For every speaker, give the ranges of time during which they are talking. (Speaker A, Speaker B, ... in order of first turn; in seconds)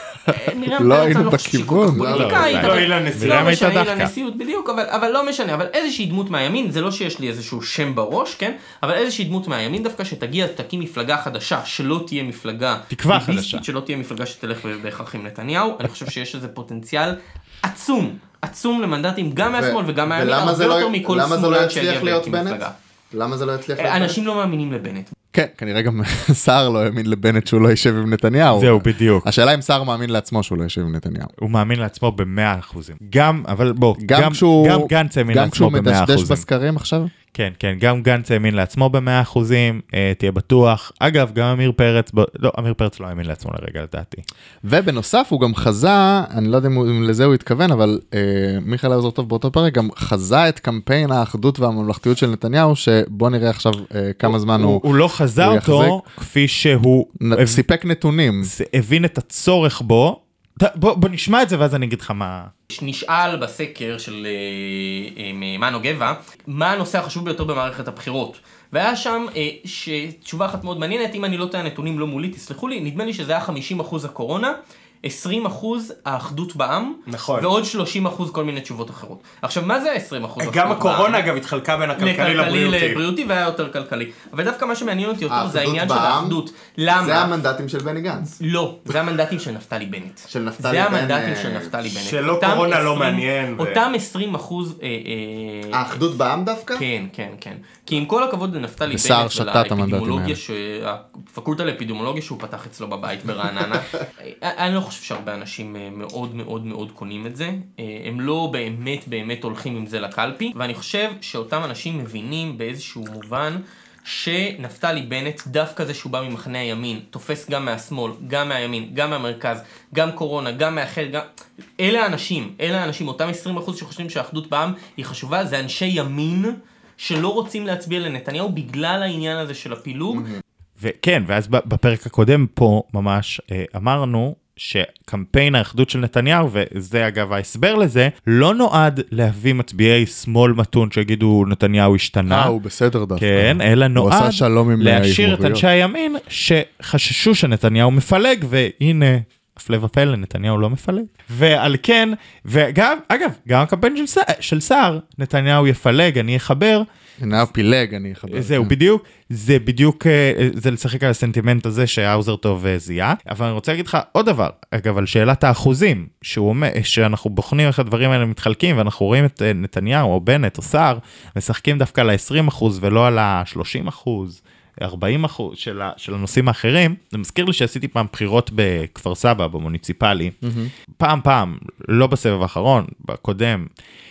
Speaker A: 0.3-2.7, 19.5-24.2, 25.3-31.3, 34.0-37.1, 44.6-54.8, 55.4-56.0, 57.2-58.5, 85.3-86.4, 86.9-88.4, 90.3-91.7, 95.7-96.8, 98.9-100.4, 130.1-130.4, 142.3-145.6, 157.2-158.7, 180.4-180.7
Speaker B: 0.3-22.7, 23.8-25.1, 62.7-81.3, 82.0-87.3, 88.4-96.0, 96.7-121.2, 121.8-130.3
Speaker C: 2.1-3.6, 77.1-77.5, 80.4-83.0, 91.9-93.8
Speaker D: 2.1-4.1, 12.9-13.6, 28.5-29.3, 31.4-36.4, 37.3-44.2, 54.2-57.6, 58.4-62.5, 130.8-142.5, 143.2-156.8, 158.3-180.3, 181.0-183.7